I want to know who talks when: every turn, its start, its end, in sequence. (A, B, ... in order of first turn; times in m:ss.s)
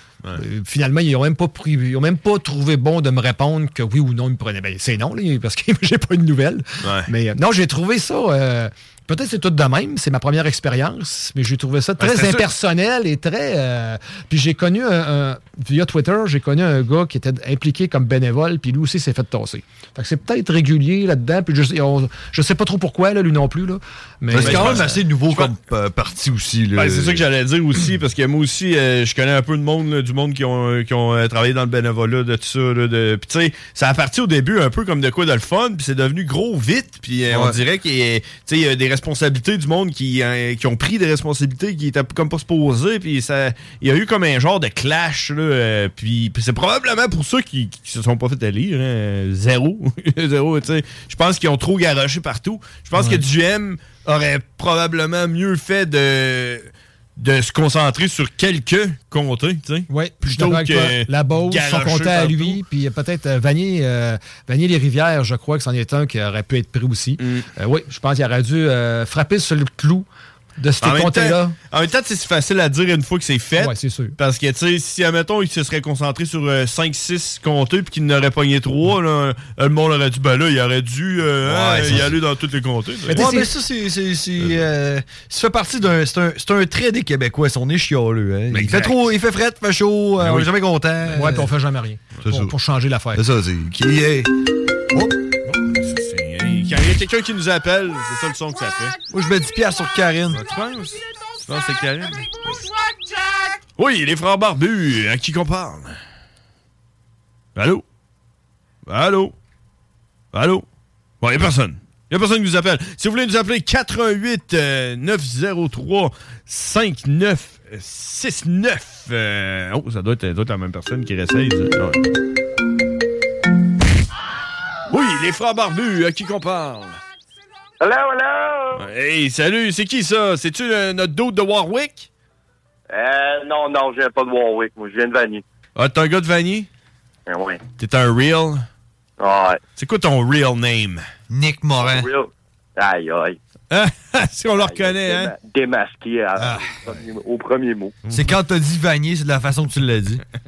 0:00.4-0:25.0 A
0:06.8-0:07.1 B
0:12.0-0:12.5 B
0:24.3-0:27.2 C
0:24.4-0:25.5 B
0:26.8-1:02.6 B
0:37.3-0:37.6 C
0:53.0-0:53.2 A
0:59.9-1:10.1 A
1:07.2-1:07.5 B
1:10.6-1:11.6 A
1:10.8-1:23.3 B
1:13.6-1:14.2 A
1:21.4-1:22.2 C
1:23.1-1:23.5 A
1:23.1-1:31.5 C
1:28.5-1:29.0 B
1:30.2-1:30.5 B
1:31.1-1:33.2 A
1:32.2-1:32.5 C
1:33.2-1:34.3 C
1:35.5-1:39.0 B
1:39.1-1:40.4 C
1:40.3-1:42.6 B
1:43.8-1:46.0 B
1:47.6-1:47.8 B
1:48.9-1:49.4 B
1:50.3-1:50.7 B
1:51.2-2:02.0 B
2:04.9-2:07.0 B
2:07.8-2:08.9 D
2:08.8-2:12.1 B
2:12.9-2:15.4 D
2:15.8-2:16.7 B
2:17.3-2:17.6 D
2:17.8-2:18.7 B
2:19.2-2:19.6 D
2:19.8-2:21.0 B
2:21.3-2:22.1 C
2:21.8-2:23.4 D
2:23.7-2:25.3 B
2:24.6-2:28.0 D
2:26.4-2:26.8 C
2:28.1-2:28.3 B
2:28.1-2:30.2 C